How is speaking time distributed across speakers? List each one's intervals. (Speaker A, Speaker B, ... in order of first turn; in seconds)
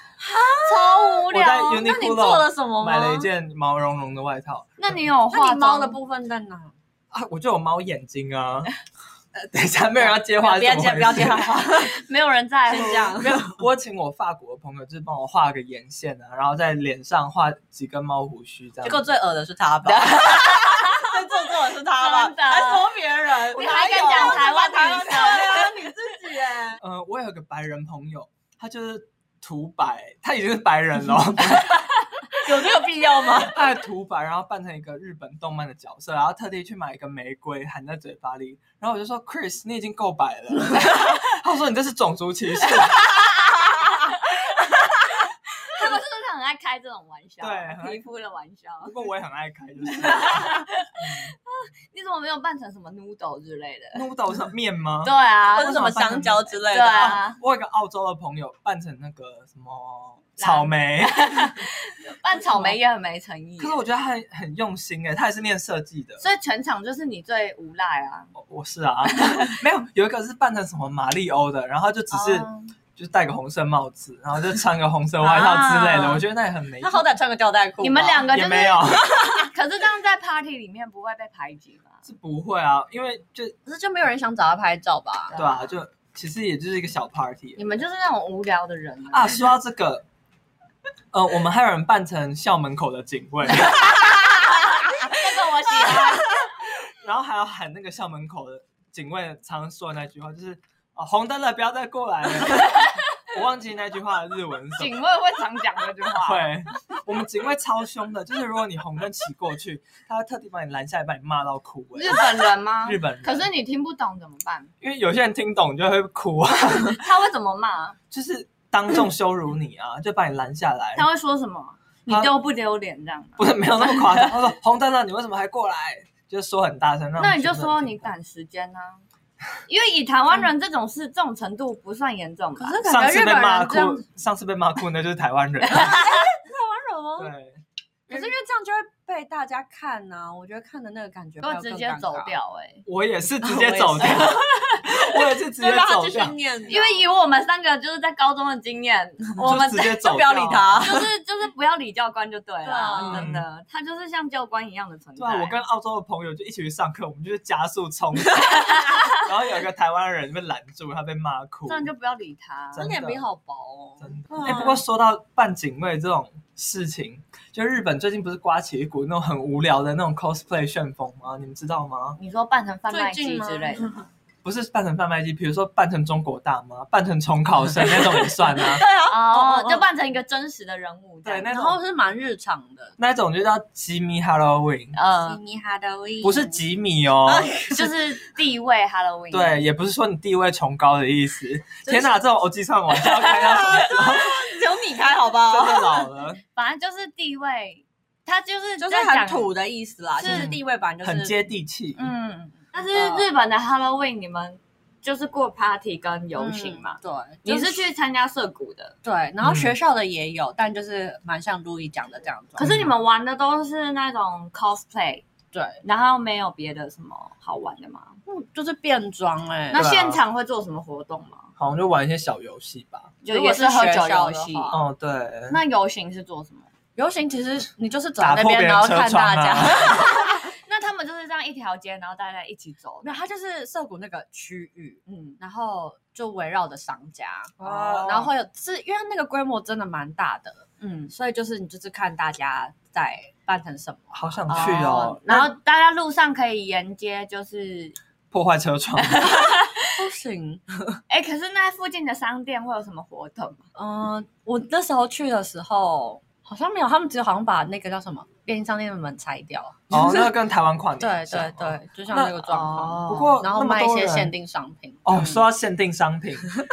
Speaker A: 0.2-3.3, 5.3-6.8, 10.0-11.9, 12.7-13.6, 18.8-26.8, 31.2-31.8, 32.3-33.6, 55.5-57.2, 72.2-72.5, 76.8-78.3, 79.1-79.5, 83.7-85.3, 132.6-134.0, 135.7-137.3, 138.1-142.4, 143.4-144.5, 145.1-147.0, 149.5-151.1, 152.6-153.3, 162.8-164.8, 172.9-174.0, 178.2-179.8, 181.5-183.0, 185.2-186.6, 187.2-188.0, 191.8-192.2, 193.1-196.1, 198.8-201.4, 202.9-203.3, 206.4-207.9, 209.0-212.7, 215.5-215.8, 218.3-219.8, 223.3-224.8, 227.0-230.5, 233.0-244.8, 250.0-251.0, 253.8-260.3, 261.0-265.5
Speaker B: 0.7-1.9, 4.8-6.0, 11.7-13.1, 19.9-21.2, 21.9-22.9, 23.5-25.9, 44.0-49.0, 50.0-54.0, 55.0-55.8, 56.7-57.4, 60.4-63.8, 66.2-68.3, 69.2-69.5, 75.2-76.2, 77.8-78.9, 79.5-82.0, 85.3-85.6, 87.6-89.5, 94.8-96.3, 104.8-106.5, 112.0-114.7, 117.0-118.0, 121.0-124.3, 127.2-129.0, 129.7-132.8, 135.7-136.1, 141.4-142.8, 144.3-145.0, 146.7-150.0, 150.8-155.6, 158.8-159.1, 161.7-162.9, 172.2-174.1, 179.1-181.5, 184.9-185.4, 187.7-189.6, 196.6-199.5, 200.2-200.5, 202.0-208.9, 212.6-215.2, 215.8-218.2, 219.7-221.5, 223.2-224.8, 225.5-226.7, 229.9-233.2, 235.1-235.4, 240.8-241.1, 244.5-248.0, 249.0-250.0, 251.1-253.7, 262.5-263.4
Speaker C: 1.3-5.0, 7.1-8.7, 9.3-11.6, 12.8-19.1, 26.8-31.8, 33.4-43.0, 47.4-48.0, 48.8-51.3, 53.9-61.6, 63.6-66.2, 68.4-77.1, 78.3-79.2, 82.0-83.6, 85.3-87.6, 89.1-90.0, 91.1-94.3, 96.0-105.2, 106.2-113.5, 114.8-117.0, 118.1-121.1, 122.1-122.3, 123.4-128.1, 132.8-136.0, 137.2-138.3, 142.9-146.4, 149.4-150.8, 153.0-153.5, 155.2-161.9, 162.7-163.3, 164.0-172.2, 174.4-178.8, 181.2-181.8, 183.0-184.9, 186.2-187.6, 189.3-194.6, 195.5-196.4, 200.2-202.1, 209.4-209.8, 212.6-212.9, 219.7-220.2, 221.6-223.1, 224.7-225.6, 228.2-230.1, 237.6-238.3, 244.1-245.5, 248.3-249.4, 259.9-264.3, 265.1-266.6